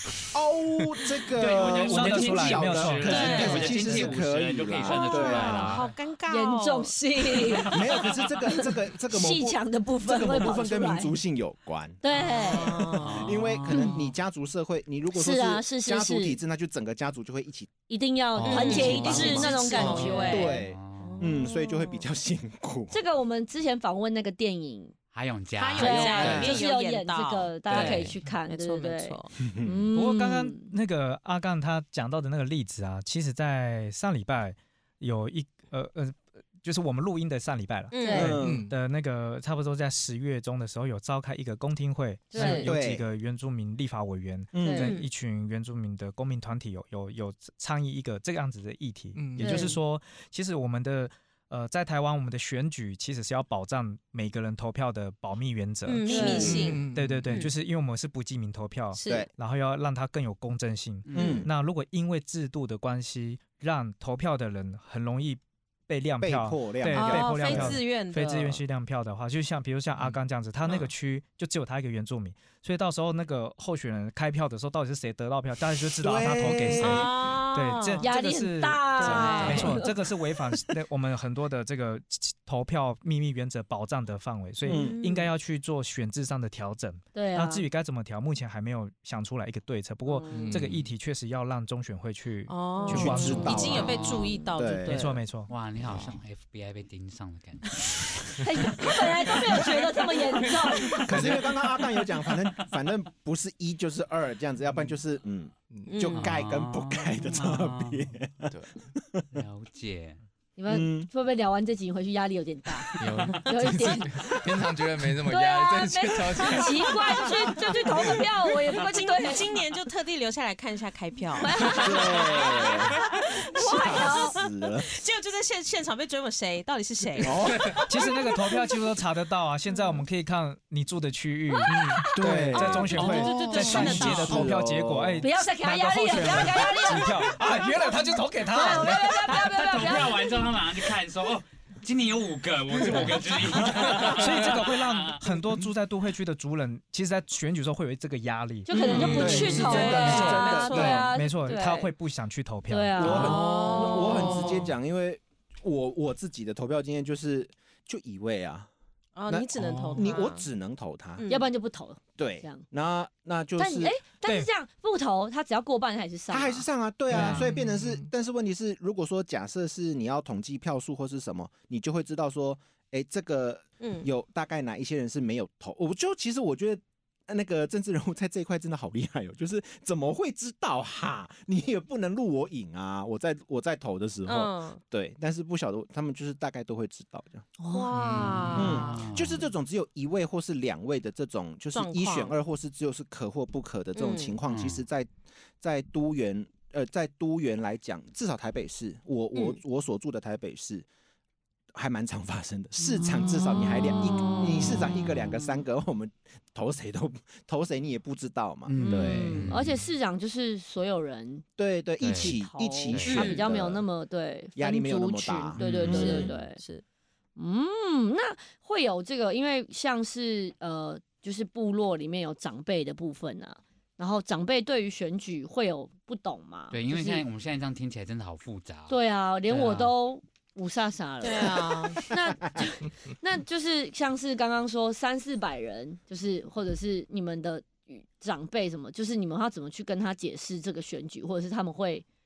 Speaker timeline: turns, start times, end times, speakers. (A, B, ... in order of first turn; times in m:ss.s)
0:00.3-0:05.8 A
0:01.3-0:05.9 B
0:01.7-0:04.1 C
0:03.1-0:04.0 D
0:04.9-0:07.8 D
0:04.9-0:05.7 E
0:06.3-0:11.2 E
0:07.6-0:08.3 B
0:07.7-0:12.6 A
0:12.0-0:13.0 E
0:12.1-0:13.4 D
0:13.0-0:14.1 B
0:13.1-0:17.7 A
0:13.7-0:13.9 E
0:15.1-0:16.4 E
0:17.9-0:20.6 E
0:18.4-0:20.3 F
0:18.4-0:22.0 D
0:18.7-0:23.0 A
0:20.5-0:21.4 B
0:22.9-0:24.9 E
0:25.1-0:26.6 B
0:25.5-0:29.3 D
0:25.8-0:30.7 E
0:26.0-0:26.5 A
0:29.4-0:29.8 A
0:29.9-1:33.8 C
0:37.9-0:38.3 D
0:38.0-0:38.3 E
0:38.1-0:38.7 A
0:38.4-0:38.7 F
0:42.3-0:42.7 E
0:42.3-0:42.7 D
0:42.4-0:43.0 A
0:44.5-0:44.9 A
0:44.6-0:44.9 E
0:44.8-0:45.1 D
0:49.1-0:49.7 F
0:49.4-0:49.7 E
0:55.8-0:57.5 D
0:56.0-0:56.8 E
0:56.4-0:57.4 F
0:58.9-0:59.3 D
1:01.1-1:01.4 B
1:01.1-1:01.5 A
1:01.2-1:01.4 D
1:06.2-1:07.8 A
1:06.9-1:08.6 D
1:16.0-1:17.1 A
1:16.7-1:18.1 D
1:18.0-1:19.9 E
1:19.0-1:19.8 D
1:24.7-1:24.9 A
1:24.7-1:25.3 D
1:27.1-1:27.6 E
1:30.1-1:30.6 E
1:30.3-1:30.9 F
1:32.5-1:35.2 D
1:32.9-1:34.0 A
1:33.5-1:34.3 B
1:34.5-1:35.0 A
1:34.8-1:35.5 C
1:35.5-1:39.0 B
1:35.8-1:36.2 F
1:38.4-1:41.1 E
1:41.0-1:49.3 A
1:41.1-1:41.5 F
1:45.7-1:46.3 F
1:45.9-1:46.3 D
1:46.1-1:48.1 B
1:48.5-1:48.8 F
1:49.3-1:50.2 B
1:50.6-1:54.3 E
1:50.7-1:51.1 A
1:53.0-1:57.3 F
1:55.2-1:59.5 E
1:58.7-2:08.3 D
2:01.4-2:02.7 E
2:01.8-2:03.0 A
2:03.5-2:04.4 E
2:03.6-2:04.9 A
2:07.2-2:07.8 A
2:07.8-2:19.2 C
2:11.5-2:12.2 E
2:11.7-2:12.1 F
2:12.1-2:15.2 A
2:12.5-2:14.5 D
2:13.1-2:13.5 E
2:15.2-2:17.7 E
2:18.4-2:20.4 E
2:19.2-2:25.2 B
2:22.8-2:24.3 F
2:24.1-2:33.4 C
2:28.7-2:31.9 E
2:28.7-2:31.1 A
2:28.8-2:31.1 D
2:32.7-2:34.5 E
2:33.0-2:38.7 A
2:33.0-2:34.7 D
2:39.2-2:40.5 D
2:39.3-2:41.2 A
2:39.6-2:40.1 F
2:41.2-2:41.5 D
2:41.3-2:42.6 E
2:42.2-2:44.0 A
2:43.6-2:46.7 E
2:44.2-2:44.5 C
2:46.3-3:07.5 A
2:47.1-2:48.1 F
2:47.1-2:47.4 B
2:53.8-2:54.1 D
3:04.2-3:04.8 D
3:07.6-3:07.9 E
3:07.7-3:09.1 D
3:07.9-3:09.5 B
3:07.9-3:08.6 F
3:08.5-3:20.8 A
3:11.7-3:12.3 D
3:13.9-3:14.4 D
3:14.5-3:14.8 B
3:21.7-3:29.5 A
3:23.0-3:24.9 E
3:23.5-3:24.6 D
3:24.6-3:25.3 B
3:28.7-3:29.8 B
3:28.8-3:31.4 E
3:31.6-3:33.8 A
3:32.0-3:32.3 B
3:32.1-3:36.6 E
3:32.9-3:33.3 B
3:33.0-3:33.4 D
3:34.6-3:36.3 A
3:35.6-3:36.1 B
3:35.8-3:36.8 D
3:37.4-3:47.2 E
3:46.7-3:48.9 B
3:48.9-4:02.0 E
3:49.5-3:49.9 B
3:51.2-3:52.0 D